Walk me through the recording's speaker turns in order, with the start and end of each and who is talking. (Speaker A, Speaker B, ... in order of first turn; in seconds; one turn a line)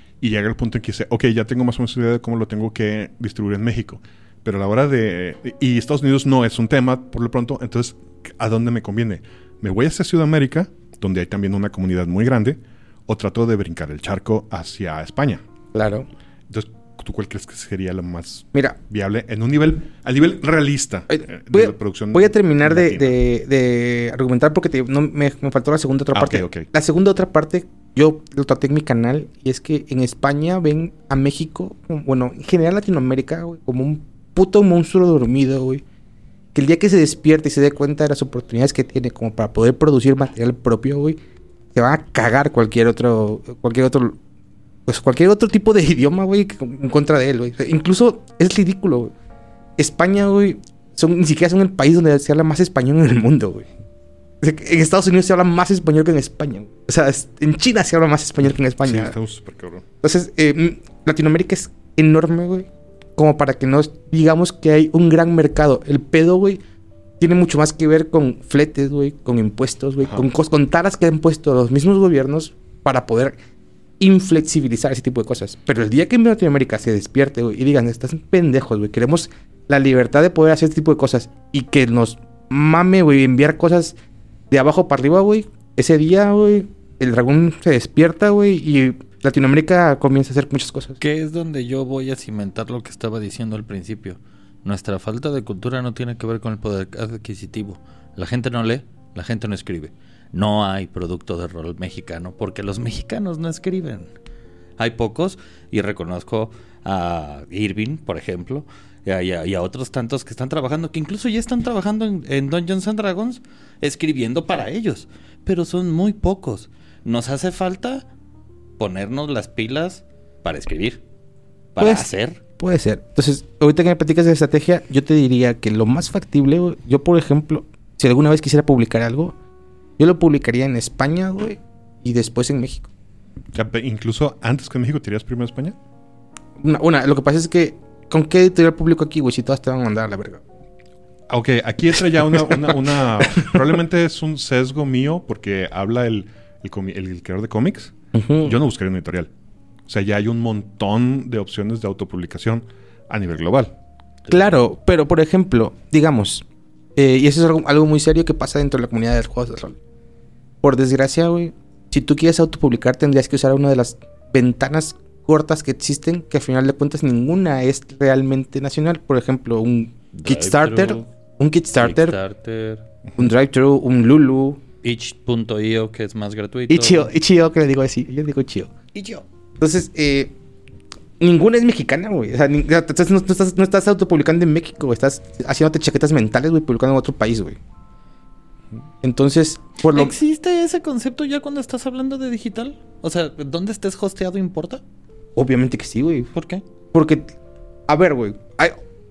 Speaker A: 0.2-15.4
Speaker B: 15.7-16.1
Speaker A: 16.5-23.1
Speaker B: 21.1-35.8
Speaker A: 26.1-26.7
Speaker B: 36.5-41.2
Speaker B: 41.7-44.2
Speaker B: 44.9-49.1
Speaker B: 49.8-53.7
Speaker B: 54.4-59.1
Speaker A: 58.8-59.8
Speaker B: 60.0-66.6
Speaker B: 67.2-73.4
Speaker B: 74.0-83.9
Speaker B: 84.5-91.0
Speaker C: 91.0-104.1
Speaker C: 104.8-118.0
Speaker C: 118.8-121.0
Speaker C: 121.7-122.4
Speaker B: 121.8-129.3
Speaker B: 130.0-132.9
Speaker A: 133.5-135.8
Speaker B: 136.6-140.4
Speaker A: 141.3-149.3
Speaker B: 148.1-148.6
Speaker A: 149.9-153.7
Speaker B: 154.3-156.4
Speaker B: 157.0-159.8
Speaker B: 160.6-172.2
Speaker C: 170.1-171.1
Speaker C: 171.8-172.8
Speaker B: 173.2-174.6
Speaker C: 174.8-177.1
Speaker B: 176.7-178.7
Speaker C: 178.9-179.2
Speaker B: 179.6-180.3
Speaker B: 181.2-187.6
Speaker B: 189.0-190.1
Speaker C: 189.8-194.8
Speaker B: 195.3-196.3
Speaker C: 196.3-196.6
Speaker B: 196.9-197.3
Speaker B: 197.9-198.8